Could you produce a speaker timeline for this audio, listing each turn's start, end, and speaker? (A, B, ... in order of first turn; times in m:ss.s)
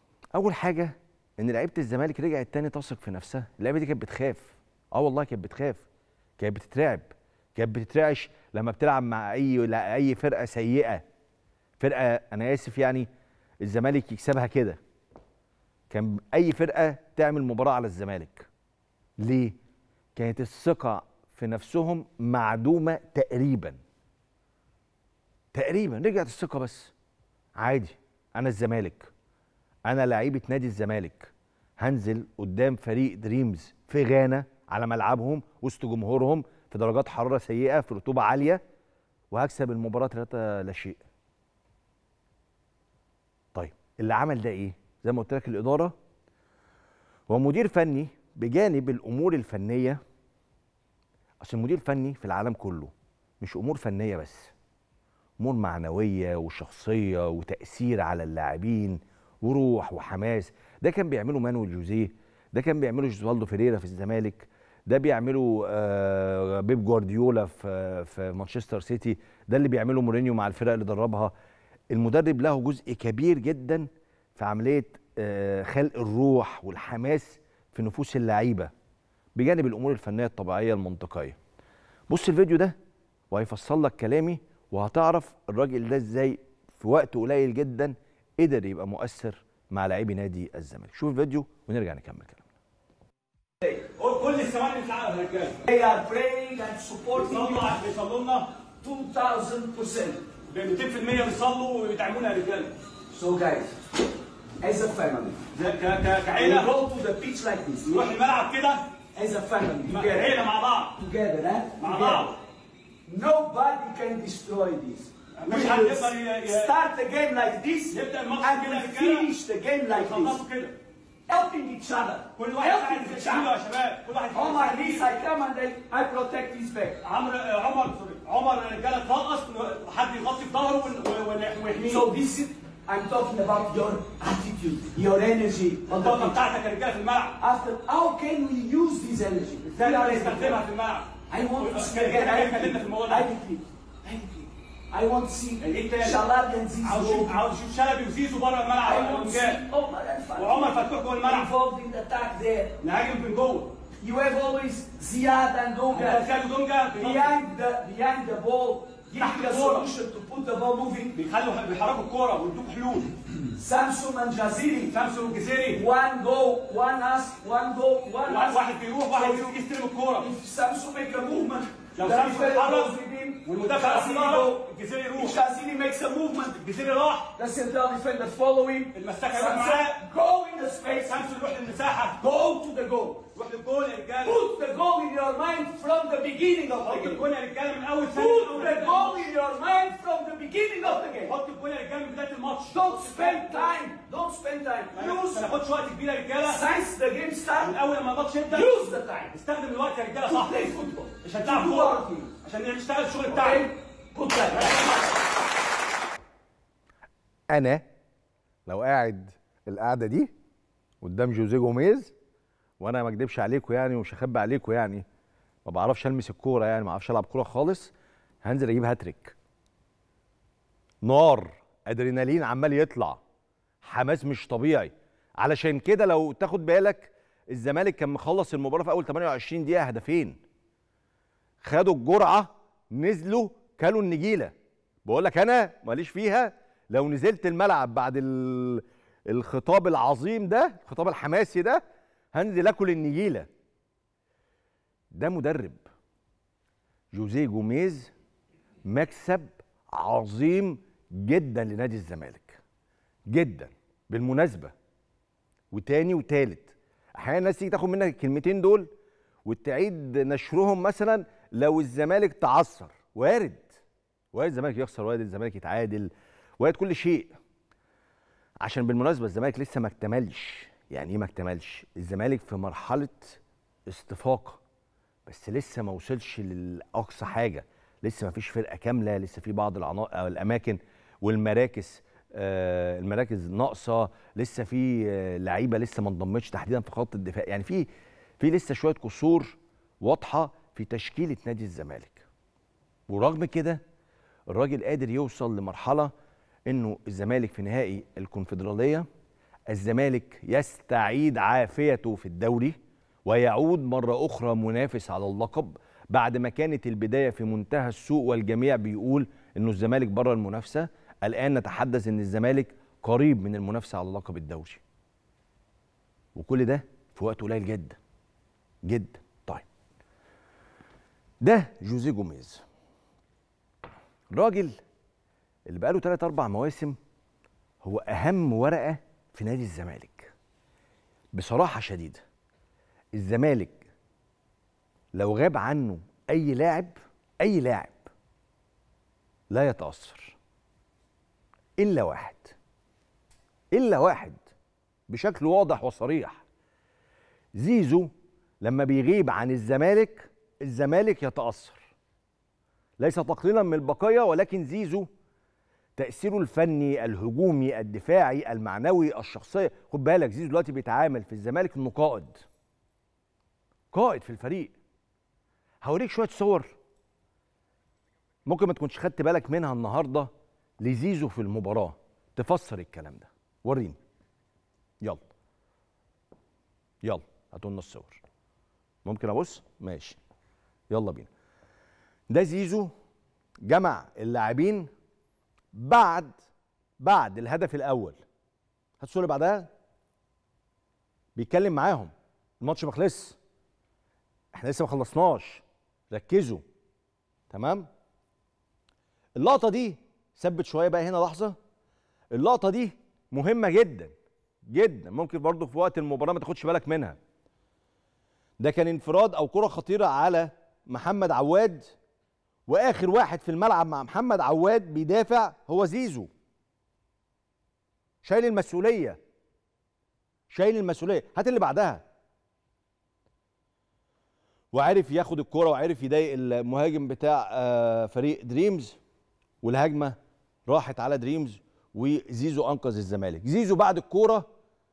0:00.4-0:05.8 A
0:06.4-0:11.0 A
0:11.8-0:13.1 A
0:13.6-0:14.8 A
0:15.9-0:18.5 A
0:19.2-0:19.6 A
0:20.2-0:23.8 A
0:25.5-0:26.9 A
0:27.6-0:29.1 A
0:29.9-0:38.6 A
0:39.3-0:41.0 A
0:43.5-0:45.9 A
0:47.3-0:50.0 A
0:51.4-0:54.5 A
0:55.4-1:11.3 A
1:11.9-1:18.7 A
1:19.4-1:21.4 A
1:22.1-1:22.8 A
1:23.3-1:32.4 A
1:34.0-1:35.6 B
1:35.7-1:37.7 C
1:37.2-1:38.5 B
1:38.8-1:40.3 C
1:40.5-1:42.8 B
1:43.1-1:43.8 C
1:44.6-1:45.4 C
1:45.6-1:46.7 B
1:46.3-1:48.2 C
1:47.9-1:48.8 B
1:49.2-1:50.4 C
1:49.9-1:51.0 B
1:51.0-1:52.4 C
1:51.8-1:52.4 B
1:53.1-2:00.4 C
1:55.4-1:56.7 B
1:57.9-1:59.3 B
1:59.9-2:00.8 B
2:01.3-2:03.6 C
2:02.4-2:05.1 B
2:04.3-2:07.0 C
2:07.0-2:12.1 B
2:11.8-2:16.4 C
2:15.9-2:17.4 B
2:17.4-2:20.6 C
2:19.7-2:23.3 B
2:21.3-2:27.4 C
2:25.6-2:26.2 B
2:26.8-2:29.6 B
2:28.8-2:32.8 C
2:30.4-2:31.5 B
2:32.8-2:33.8 B
2:34.0-2:36.3 C
2:35.9-2:37.4 B
2:36.9-2:41.2 C
2:39.2-2:39.9 B
2:41.1-2:43.2 B
2:43.5-2:45.0 C
2:44.9-2:45.8 B
2:45.7-2:49.6 C
2:48.3-2:50.3 B
2:50.2-2:56.6 C
2:52.0-2:55.4 B
2:56.6-2:57.4 B
2:57.3-3:01.2 C
2:58.9-3:00.0 B
3:01.0-3:02.2 B
3:02.2-3:03.3 C
3:03.4-3:04.4 B
3:04.2-3:07.2 C
3:06.8-3:09.2 B
3:08.1-3:11.4 C
3:11.2-3:13.7 B
3:12.7-3:15.6 C
3:14.9-3:16.7 B
3:16.4-3:17.8 C
3:17.6-3:20.6 B
3:18.5-3:19.4 C
3:20.2-3:22.3 C
3:21.2-3:23.7 B
3:23.3-3:25.0 C
3:24.6-3:24.9 B
3:27.5-3:27.8 A
3:28.7-3:30.3 A
3:31.0-3:32.1 A
3:32.8-3:35.0 A
3:35.7-3:37.9 A
3:38.4-3:39.4 A
3:41.0-3:43.2 A
3:43.8-3:50.4 A
3:51.6-3:54.5 A
3:55.1-4:01.8 A
4:02.3-4:03.5 A
4:05.1-4:05.8 A
4:07.1-4:08.1 A
4:08.9-4:12.6 A
4:13.3-4:14.7 A
4:15.7-4:18.9 A
4:19.5-4:23.8 A
4:24.3-4:27.3 A
4:28.6-4:34.6 A
4:35.3-4:47.8 A
4:48.4-4:52.2 A
4:53.1-4:53.8 A
4:54.5-4:56.1 A
4:56.7-4:59.1 A
4:59.7-5:14.8 A
5:16.4-5:18.0 A
5:18.8-5:19.6 A
5:21.4-5:22.6 A
5:24.3-5:24.8 A
5:25.7-5:27.0 A
5:27.8-5:30.3 A
5:31.3-5:32.2 A
5:33.2-5:33.8 A
5:35.2-5:38.1 A
5:39.5-5:40.4 A
5:41.8-5:42.6 A
5:43.7-5:44.4 A
5:45.1-5:46.4 A
5:47.6-5:48.1 A
5:48.6-5:51.9 A
5:53.0-5:55.1 A
5:56.0-6:02.4 A
6:03.9-6:04.7 A
6:05.8-6:06.8 A
6:08.5-6:10.3 A
6:10.8-6:14.0 A
6:17.0-6:18.2 A
6:19.0-6:20.2 A
6:20.9-6:21.3 A
6:22.3-6:22.9 A
6:23.6-6:24.9 A
6:25.7-6:26.4 A
6:27.0-6:28.2 A
6:29.0-6:29.7 A
6:31.4-6:33.4 A
6:34.5-6:36.6 A
6:37.5-6:37.9 A
6:39.4-6:41.6 A
6:42.3-6:44.1 A
6:44.7-6:47.2 A
6:48.6-6:51.9 A
6:52.7-6:56.3 A
6:58.2-6:59.2 A
7:00.5-7:02.0 A
7:04.7-7:09.0 A
7:09.6-7:10.2 A
7:10.7-7:14.5 A